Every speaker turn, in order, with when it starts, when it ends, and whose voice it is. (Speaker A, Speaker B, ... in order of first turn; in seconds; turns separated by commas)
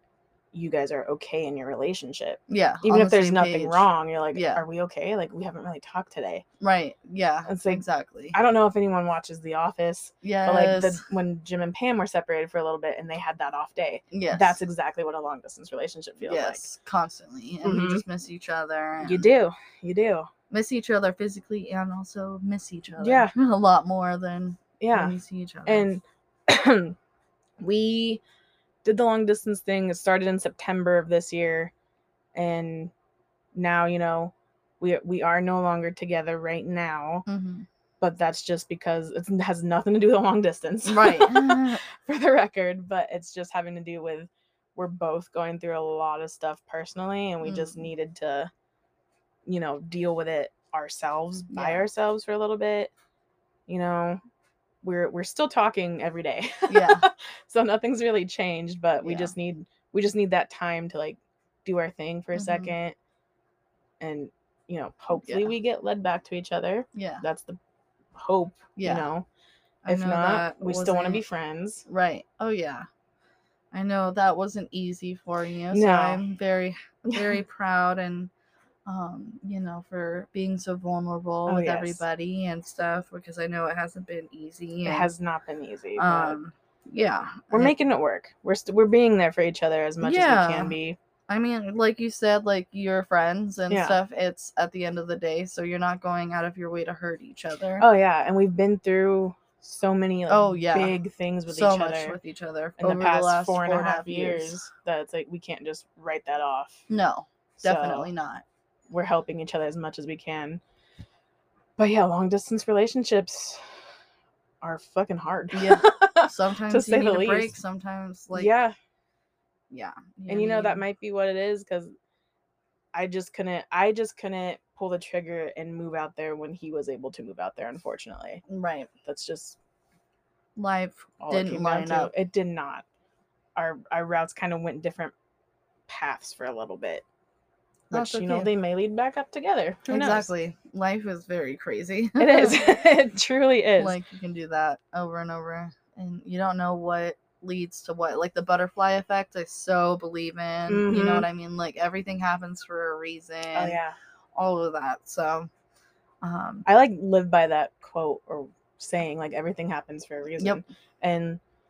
Speaker A: 0.5-6.4, Speaker B: 2.5-4.6, Speaker B: 6.6-8.3, Speaker A: 7.5-16.6, Speaker B: 10.2-11.0, Speaker B: 14.1-14.6, Speaker B: 16.2-19.3, Speaker A: 17.6-18.0, Speaker A: 19.0-20.3, Speaker B: 20.5-25.9, Speaker A: 23.0-23.3, Speaker A: 24.8-27.0, Speaker A: 27.6-28.2, Speaker A: 28.8-31.7, Speaker A: 32.3-32.9, Speaker A: 33.5-37.2, Speaker B: 37.2-37.6, Speaker A: 38.0-48.5, Speaker B: 40.9-41.8, Speaker B: 47.4-47.9, Speaker A: 49.4-52.9, Speaker B: 51.5-51.9, Speaker A: 53.7-54.2, Speaker A: 54.8-63.0, Speaker B: 56.7-57.0, Speaker B: 59.0-59.3, Speaker B: 62.3-62.7, Speaker A: 64.0-67.6, Speaker B: 65.1-65.5, Speaker B: 66.9-67.2, Speaker A: 68.1-69.2, Speaker B: 68.8-69.1, Speaker A: 69.8-71.8, Speaker B: 69.8-71.2, Speaker B: 71.8-72.8, Speaker B: 73.7-78.3, Speaker A: 75.7-76.2, Speaker A: 77.1-77.4, Speaker B: 78.8-85.1, Speaker A: 81.5-82.0, Speaker A: 84.8-86.4, Speaker B: 86.0-87.7, Speaker A: 87.5-91.0, Speaker B: 90.0-90.8, Speaker B: 91.3-97.8, Speaker A: 93.7-94.0, Speaker A: 97.8-102.2, Speaker B: 100.3-101.0, Speaker B: 101.5-104.6, Speaker A: 102.8-106.8, Speaker B: 106.9-108.4, Speaker A: 107.6-108.1, Speaker A: 108.9-110.6, Speaker A: 111.8-113.7, Speaker A: 114.6-117.6, Speaker B: 115.5-118.5, Speaker A: 118.3-118.7, Speaker B: 119.7-120.8, Speaker A: 120.3-121.9, Speaker A: 122.9-128.4, Speaker B: 128.5-128.9, Speaker A: 129.1-129.6, Speaker B: 130.6-132.1, Speaker A: 131.2-132.8, Speaker A: 133.6-135.1, Speaker A: 135.9-137.0, Speaker B: 137.9-138.5, Speaker A: 137.9-140.3, Speaker B: 139.9-142.8, Speaker A: 142.2-144.0, Speaker B: 143.8-153.8, Speaker A: 150.7-151.3, Speaker A: 153.5-153.9, Speaker B: 154.3-155.5, Speaker B: 156.2-156.7, Speaker A: 156.7-161.4, Speaker B: 160.4-160.6